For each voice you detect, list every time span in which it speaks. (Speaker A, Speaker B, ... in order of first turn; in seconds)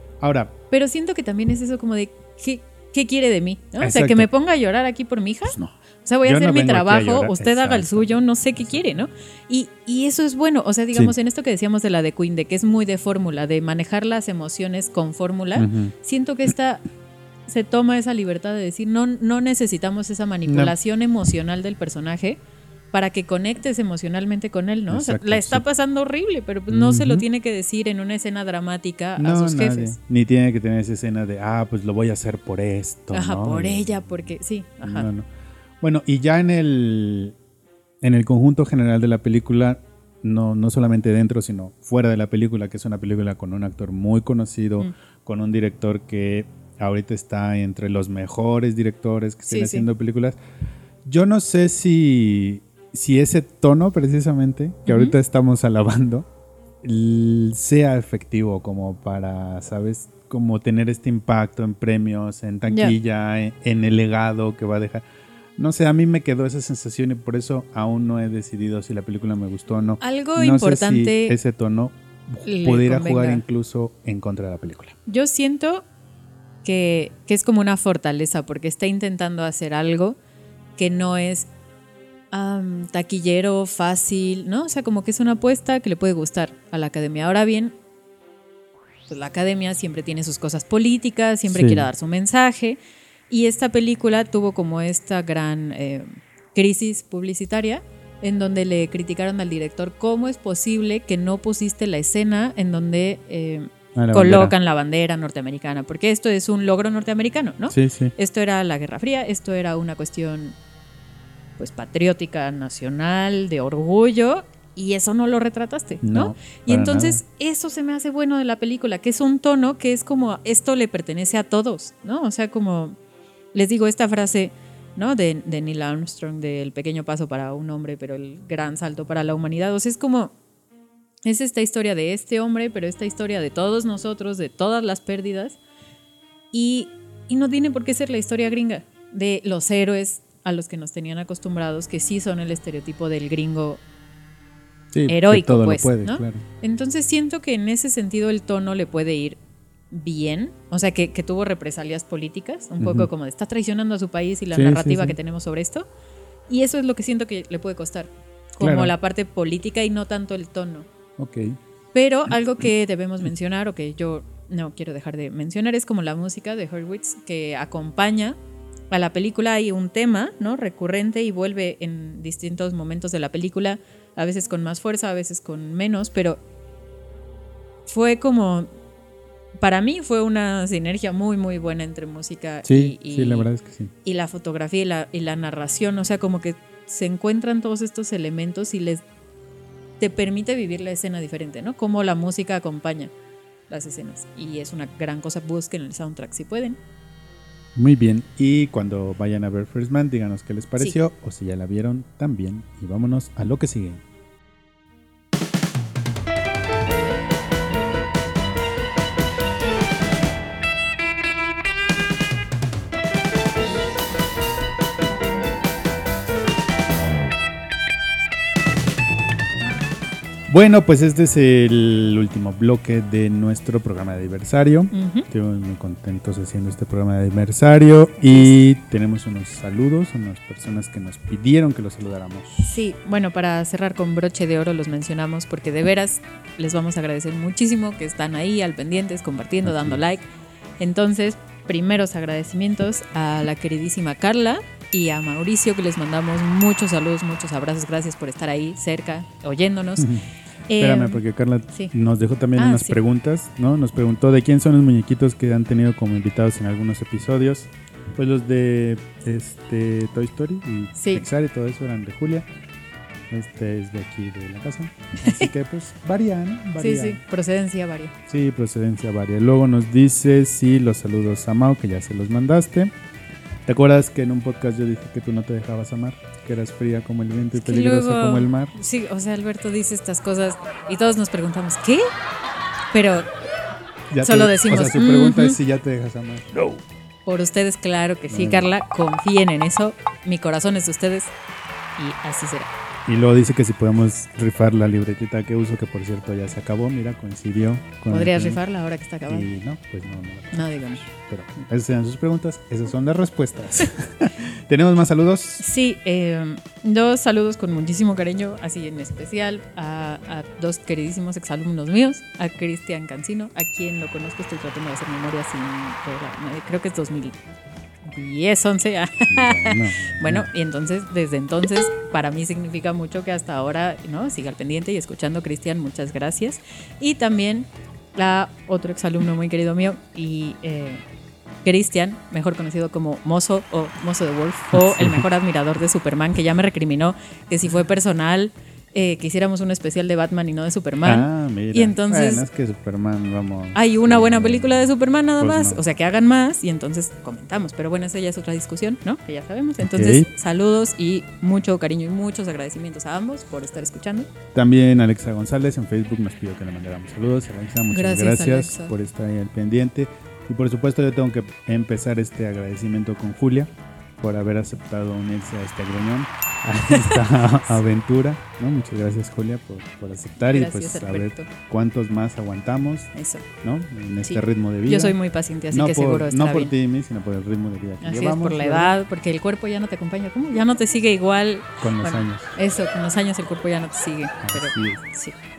Speaker A: 0.2-0.5, 3.8-4.3, 5.5-8.8, 15.6-15.9, 20.5-20.7, 24.9-25.6, 26.7-27.2, 29.2-34.2, 34.8-35.3, 35.8-37.3, 38.0-50.4, 51.0-56.3, 56.8-65.0, 65.6-75.0, 91.5-91.9, 103.9-104.5, 107.7-108.1, 116.0-117.2, 144.9-146.4, 152.8-153.1, 154.5-155.2, 158.6-158.9, 161.2-161.6, 182.6-183.9, 197.8-204.0, 220.5-232.8, 239.6-240.0, 250.0-250.3, 250.8-262.4, 263.3-267.2, 268.3-272.9, 273.6-278.7, 284.1-286.8, 288.3-288.7, 293.1-298.6, 299.3-305.6, 319.3-320.5, 334.7-335.2, 341.0-345.8, 349.8-350.3, 354.5-373.1, 373.6-375.2, 375.7-378.9, 381.8-382.5, 384.4-385.0
Speaker B: 0.7-16.8, 17.5-22.4, 22.9-30.0, 33.1-35.1, 49.5-49.9, 54.9-55.1, 62.7-62.9, 70.0-71.3, 72.4-73.4, 75.1-75.8, 76.6-80.2, 80.8-81.5, 82.3-87.7, 89.1-92.8, 93.3-110.5, 111.6-123.0, 123.5-130.3, 131.2-135.6, 136.5-143.8, 145.1-149.4, 149.9-155.9, 156.5-160.9, 161.9-168.4, 168.9-176.4, 177.9-178.7, 179.6-183.5, 184.0-189.0, 190.0-193.1, 193.7-196.8, 224.9-225.2, 228.2-228.5, 232.6-240.2, 240.8-250.1, 250.7-251.2, 252.6-253.0, 260.9-261.2, 265.2-265.5, 266.8-268.1, 277.5-282.1, 282.9-283.3, 284.2-285.6, 287.2-291.3, 292.0-292.7, 298.1-299.5, 300.5-301.1, 305.6-317.4, 318.0-331.0, 331.6-342.4, 343.7-354.3, 357.9-358.9, 366.9-367.2, 370.4-371.5, 373.1-373.4, 374.2-376.7, 378.0-385.3